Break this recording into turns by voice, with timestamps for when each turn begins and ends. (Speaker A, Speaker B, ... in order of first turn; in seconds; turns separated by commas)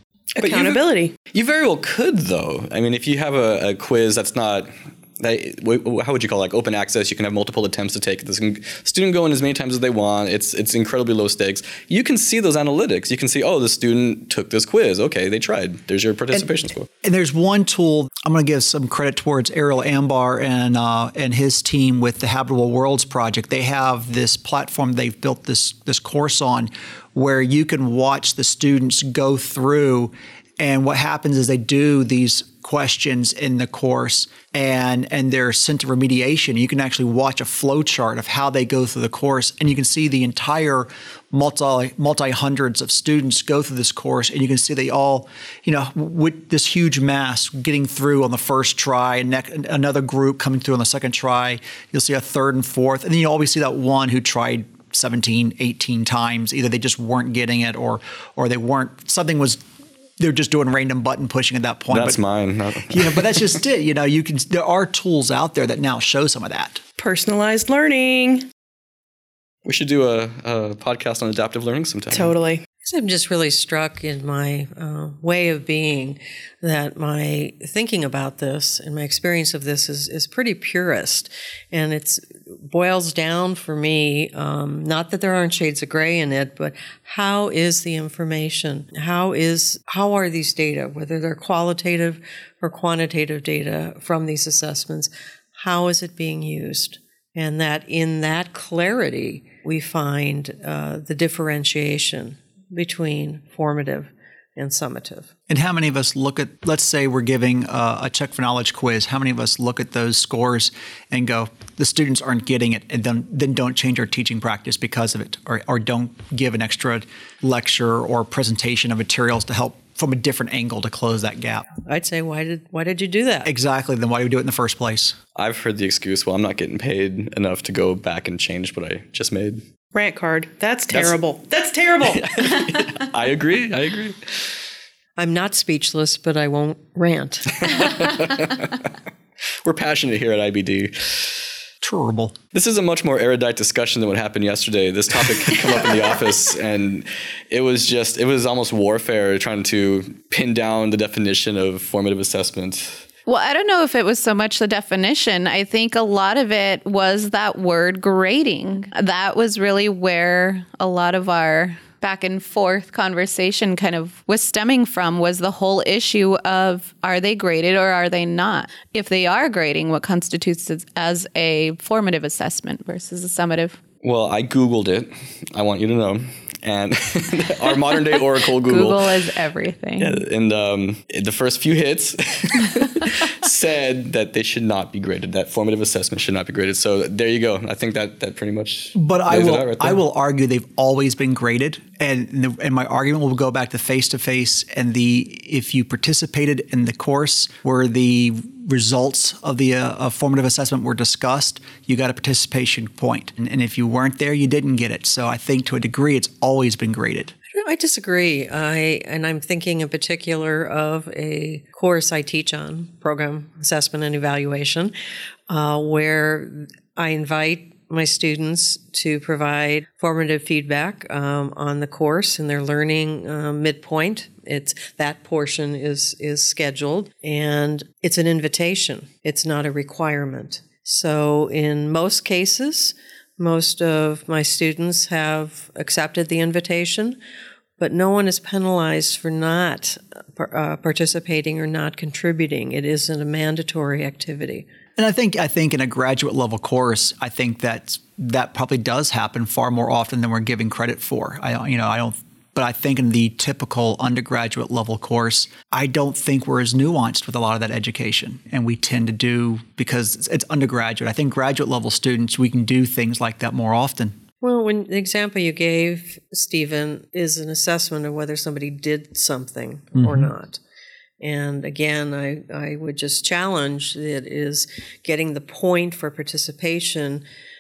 Speaker A: 0.3-1.1, Speaker B: 0.4-16.9, Speaker C: 17.0-59.6, Speaker C: 60.2-62.2, Speaker B: 61.9-63.4, Speaker C: 62.9-66.8, Speaker A: 67.0-68.5, Speaker B: 69.6-72.3, Speaker A: 72.1-72.6, Speaker D: 72.8-105.3, Speaker C: 105.5-121.7, Speaker D: 121.8-123.5, Speaker C: 123.4-125.2, Speaker B: 125.3-129.6, Speaker A: 129.9-132.6, Speaker B: 130.9-131.2, Speaker B: 132.0-134.4, Speaker D: 135.2-137.7, Speaker B: 137.6-138.9, Speaker B: 139.6-141.4, Speaker C: 141.8-142.3, Speaker B: 142.5-153.0, Speaker E: 153.2-173.8, Speaker B: 174.0-179.1, Speaker E: 178.6-180.2, Speaker B: 180.0-190.0, Speaker C: 188.9-207.3, Speaker D: 207.5-214.9, Speaker D: 215.5-237.2, Speaker D: 237.8-244.7, Speaker C: 245.0-264.2, Speaker D: 264.4-270.6, Speaker C: 269.9-270.3, Speaker D: 271.2-277.2